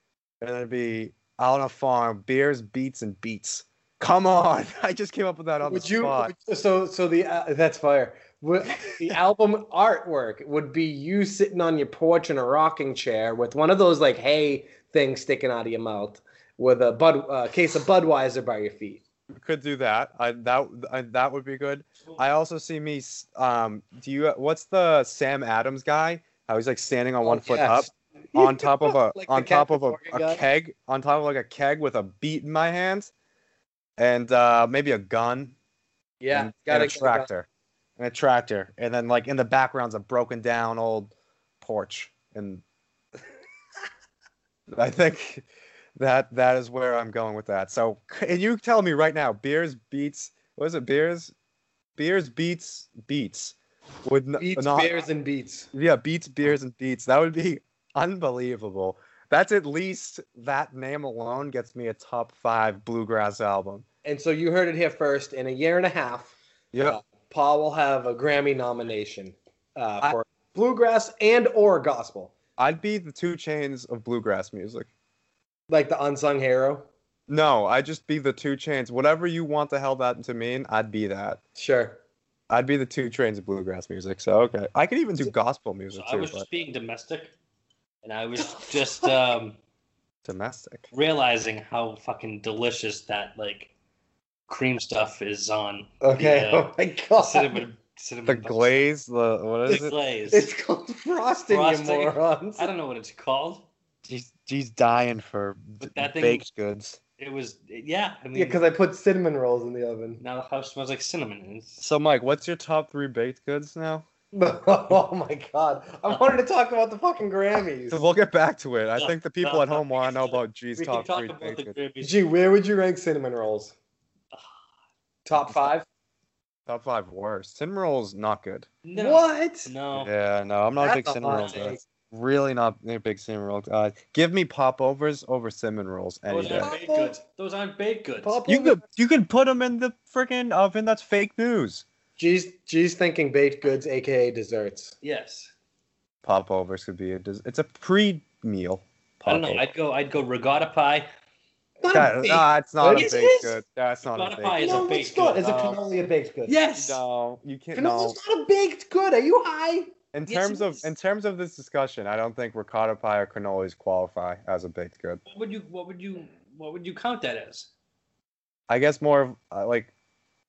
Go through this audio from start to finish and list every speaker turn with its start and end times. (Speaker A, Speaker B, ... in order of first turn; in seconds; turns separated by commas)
Speaker A: 0.4-6.3, Speaker B: 5.6-19.0, Speaker A: 19.3-33.1, Speaker B: 27.2-30.4, Speaker A: 34.0-35.6, Speaker B: 36.2-37.3, Speaker A: 36.3-42.6, Speaker A: 44.7-45.5, Speaker A: 46.0-51.3, Speaker A: 52.0-54.9, Speaker B: 54.4-55.7, Speaker A: 55.7-63.9, Speaker B: 64.0-72.3, Speaker A: 66.7-67.0, Speaker A: 72.6-74.9, Speaker B: 75.7-76.9, Speaker A: 77.3-81.4, Speaker B: 81.6-82.0, Speaker A: 82.5-86.5, Speaker C: 85.9-87.3, Speaker C: 88.0-89.6, Speaker A: 90.2-90.9, Speaker C: 90.9-93.7, Speaker C: 94.5-98.8, Speaker B: 96.0-97.6, Speaker A: 98.3-100.0, Speaker C: 99.7-100.5, Speaker B: 100.3-102.7, Speaker C: 101.5-103.7, Speaker A: 104.0-107.0, Speaker C: 105.8-106.5, Speaker C: 107.2-108.6, Speaker B: 108.3-110.2, Speaker C: 110.2-111.8, Speaker A: 111.8-114.1, Speaker B: 114.3-118.0, Speaker A: 117.9-121.8, Speaker C: 119.0-122.2, Speaker B: 122.0-123.8, Speaker B: 125.3-125.9, Speaker A: 126.7-128.7, Speaker C: 128.8-130.1, Speaker B: 128.9-129.7, Speaker A: 130.0-136.7, Speaker B: 130.8-131.8, Speaker C: 131.3-131.6, Speaker C: 136.3-138.4, Speaker B: 136.5-137.2, Speaker B: 138.2-138.8, Speaker A: 138.5-141.8, Speaker B: 142.2-145.0, Speaker C: 145.0-145.5, Speaker A: 146.2-149.7, Speaker C: 149.2-151.1, Speaker B: 151.8-153.5, Speaker A: 151.9-154.8, Speaker C: 152.9-153.5, Speaker C: 154.1-155.8, Speaker B: 154.6-156.6, Speaker C: 156.5-157.0, Speaker A: 156.8-158.2, Speaker B: 157.7-159.9, Speaker A: 160.1-165.2, Speaker C: 160.3-160.9, Speaker C: 165.3-167.7, Speaker A: 168.7-169.9